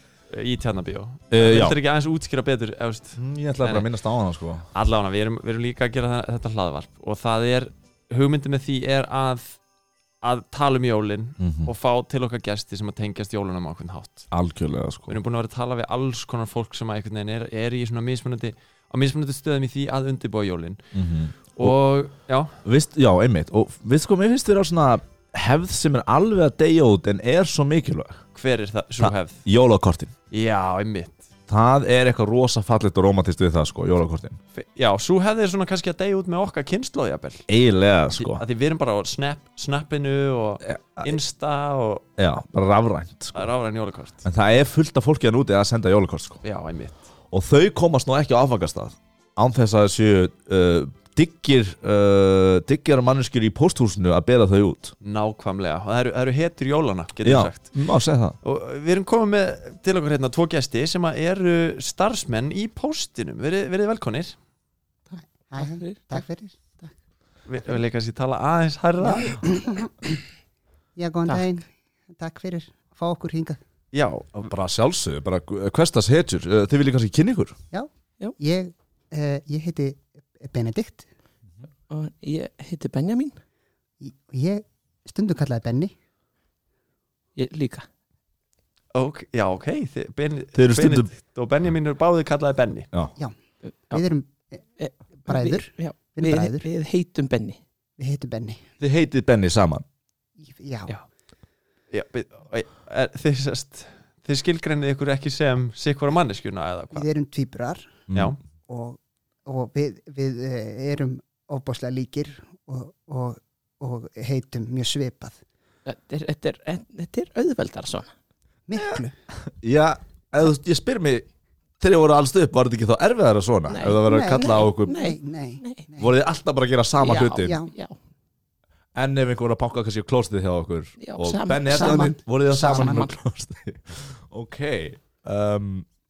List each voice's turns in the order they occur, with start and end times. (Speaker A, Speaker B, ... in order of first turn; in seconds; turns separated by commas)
Speaker A: 0.3-3.9, Speaker B: 1.3-1.8, Speaker B: 3.1-4.7, Speaker A: 4.7-9.6, Speaker A: 10.2-14.3, Speaker B: 11.4-11.7, Speaker B: 14.3-15.2, Speaker A: 15.1-20.8, Speaker B: 20.9-21.7, Speaker A: 21.5-22.5, Speaker B: 22.6-28.2, Speaker A: 28.3-29.4, Speaker B: 29.0-30.1, Speaker A: 30.3-31.2, Speaker B: 31.5-34.4, Speaker A: 34.5-37.5, Speaker B: 37.5-38.4, Speaker A: 38.1-42.0, Speaker B: 40.6-41.2, Speaker B: 42.2-43.5, Speaker A: 43.3-44.2, Speaker B: 44.2-46.4, Speaker A: 46.4-47.0, Speaker B: 47.3-54.9, Speaker A: 55.0-57.7, Speaker B: 57.2-58.4, Speaker A: 58.4-64.4, Speaker C: 65.1-66.2, Speaker D: 65.5-66.5, Speaker A: 67.5-69.5, Speaker D: 69.0-69.9, Speaker D: 71.0-73.6, Speaker A: 73.9-74.5, Speaker B: 74.5-77.5, Speaker D: 77.7-81.0, Speaker C: 81.9-83.4, Speaker D: 84.0-85.9, Speaker C: 87.3-87.8, Speaker A: 88.9-92.9, Speaker B: 90.5-91.1, Speaker C: 93.6-94.0, Speaker D: 93.9-94.6, Speaker C: 94.8-97.6, Speaker D: 95.2-96.7, Speaker D: 98.0-98.6, Speaker B: 98.8-99.8, Speaker D: 100.4-101.0, Speaker A: 101.9-107.1, Speaker D: 106.9-108.0, Speaker A: 108.1-108.4, Speaker D: 108.7-115.4, Speaker C: 115.8-118.1, Speaker D: 118.7-119.2, Speaker B: 119.6-121.2, Speaker B: 121.8-125.0, Speaker C: 123.7-125.9, Speaker D: 124.0-126.1, Speaker B: 126.0-127.6, Speaker C: 127.0-128.0, Speaker D: 127.4-127.7, Speaker B: 128.9-135.9, Speaker C: 131.0-133.1, Speaker D: 131.7-133.1